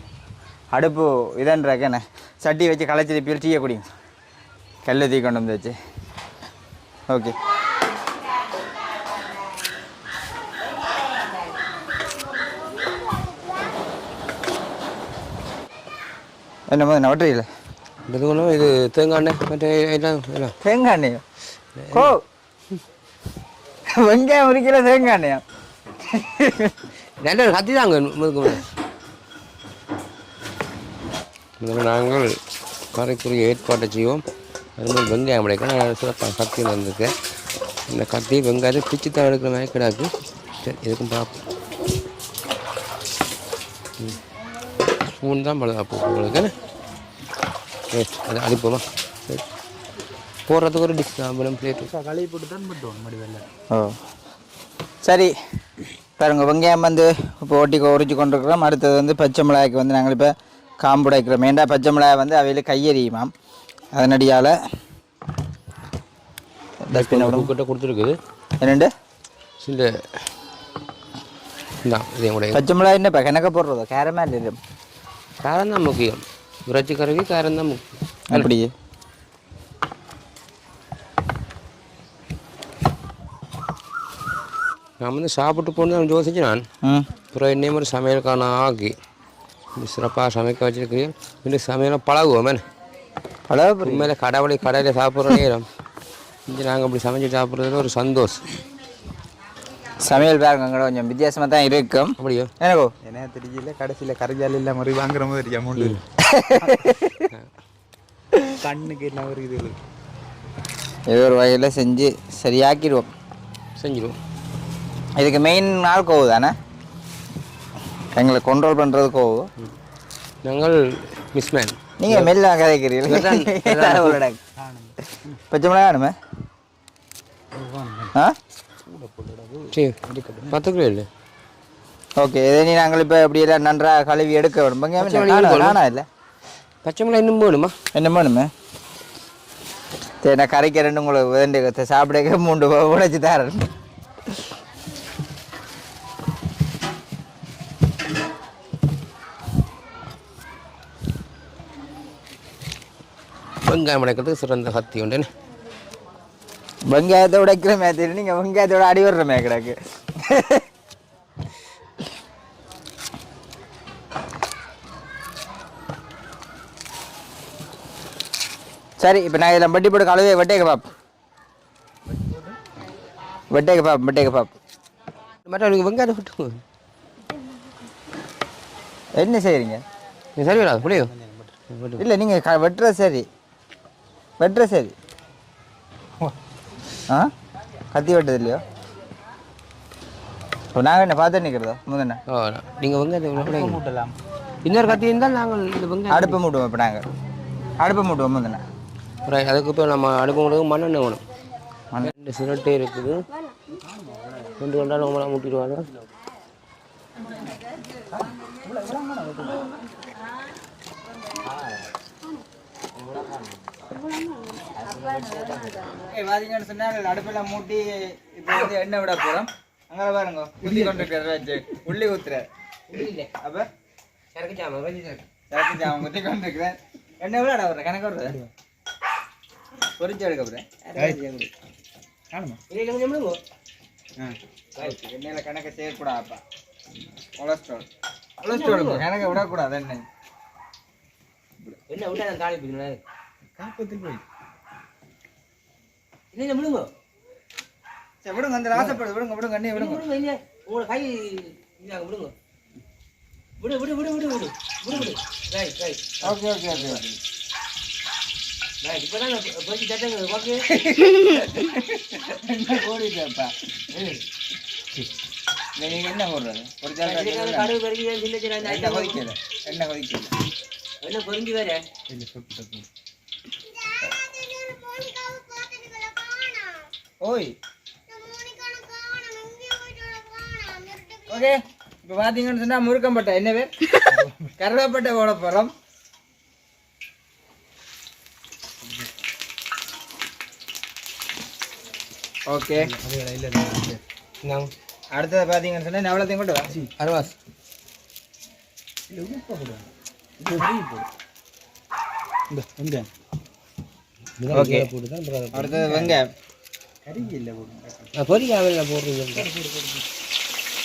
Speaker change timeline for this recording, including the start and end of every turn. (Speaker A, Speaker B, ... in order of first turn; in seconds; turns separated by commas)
Speaker A: 0.7-3.9, Speaker A: 4.8-5.7, Speaker A: 16.7-17.5, Speaker B: 18.1-20.5, Speaker A: 20.6-21.2, Speaker B: 21.8-22.1, Speaker A: 21.9-22.2, Speaker A: 23.9-25.4, Speaker A: 26.1-26.7, Speaker B: 27.2-28.7, Speaker B: 31.6-32.3, Speaker B: 32.9-34.2, Speaker B: 34.8-37.1, Speaker B: 37.9-40.1, Speaker B: 40.6-41.4, Speaker B: 45.2-46.5, Speaker B: 47.9-49.4, Speaker B: 50.5-51.9, Speaker C: 51.9-53.5, Speaker A: 55.0-55.3, Speaker A: 56.2-63.3, Speaker A: 63.9-64.5, Speaker A: 66.8-67.5, Speaker B: 66.9-68.2, Speaker A: 68.6-68.9, Speaker B: 69.6-70.0, Speaker B: 71.8-72.6, Speaker A: 72.5-74.6, Speaker B: 75.4-78.5, Speaker A: 78.3-78.7, Speaker B: 85.0-86.6, Speaker A: 86.8-87.1, Speaker B: 87.3-88.9, Speaker B: 89.8-92.6, Speaker A: 93.5-94.1, Speaker B: 93.8-95.7, Speaker B: 96.5-98.5, Speaker A: 100.0-102.9, Speaker B: 102.2-102.5, Speaker C: 103.0-106.0, Speaker A: 106.2-107.3, Speaker C: 108.6-109.7, Speaker A: 111.1-113.1, Speaker B: 113.8-114.2, Speaker A: 115.2-116.5, Speaker A: 118.1-119.5, Speaker B: 120.4-120.8, Speaker B: 121.3-122.3, Speaker A: 122.0-124.4, Speaker B: 123.1-124.2, Speaker C: 124.6-125.4, Speaker A: 125.5-126.1, Speaker C: 127.5-128.1, Speaker C: 128.8-130.6, Speaker B: 129.7-131.1, Speaker A: 132.2-136.1, Speaker B: 135.0-135.8, Speaker B: 136.8-137.7, Speaker A: 137.9-138.5, Speaker A: 140.2-143.7, Speaker B: 153.7-155.3, Speaker A: 156.8-160.6, Speaker A: 169.0-170.9, Speaker C: 172.1-172.5, Speaker A: 173.5-174.6, Speaker B: 175.5-176.6, Speaker A: 179.2-179.8, Speaker B: 180.4-181.1, Speaker C: 180.5-181.5, Speaker B: 181.7-182.0, Speaker A: 182.0-183.2, Speaker A: 184.4-184.9, Speaker A: 187.9-188.6, Speaker A: 190.7-192.2, Speaker B: 192.3-193.8, Speaker C: 193.3-194.1, Speaker B: 194.6-196.4, Speaker A: 196.1-197.0, Speaker A: 197.8-198.6, Speaker B: 199.2-201.2, Speaker B: 202.0-203.2, Speaker C: 203.8-204.5, Speaker B: 204.6-205.9, Speaker C: 208.1-209.7, Speaker B: 214.8-215.8, Speaker A: 216.1-222.5, Speaker B: 222.9-223.3, Speaker A: 223.4-223.7, Speaker B: 224.3-225.2, Speaker A: 225.5-228.4, Speaker A: 230.0-230.6, Speaker B: 230.9-231.5, Speaker B: 232.7-233.4, Speaker A: 234.8-236.4, Speaker A: 237.4-237.8, Speaker A: 238.4-240.0, Speaker B: 238.5-239.0, Speaker B: 241.9-243.0, Speaker C: 243.6-244.2, Speaker B: 246.3-246.9, Speaker A: 248.2-250.0, Speaker B: 249.7-252.3, Speaker B: 253.6-256.2, Speaker A: 256.2-257.0, Speaker B: 256.8-257.1, Speaker B: 258.8-260.6, Speaker A: 260.7-263.5, Speaker B: 263.9-264.2, Speaker A: 265.8-267.8, Speaker B: 267.1-269.2, Speaker A: 268.6-270.3, Speaker B: 271.0-271.8, Speaker C: 272.1-272.9, Speaker A: 277.2-277.5, Speaker A: 281.3-285.7, Speaker C: 284.1-284.5, Speaker A: 292.5-292.9, Speaker C: 292.8-294.0, Speaker B: 294.4-294.7, Speaker A: 295.1-296.7, Speaker B: 297.0-297.3, Speaker C: 299.1-299.9, Speaker C: 300.4-301.1, Speaker C: 302.5-303.1, Speaker B: 304.4-305.8, Speaker A: 304.5-304.9, Speaker A: 305.5-306.3, Speaker C: 307.1-308.1, Speaker B: 308.2-309.5, Speaker C: 309.3-310.0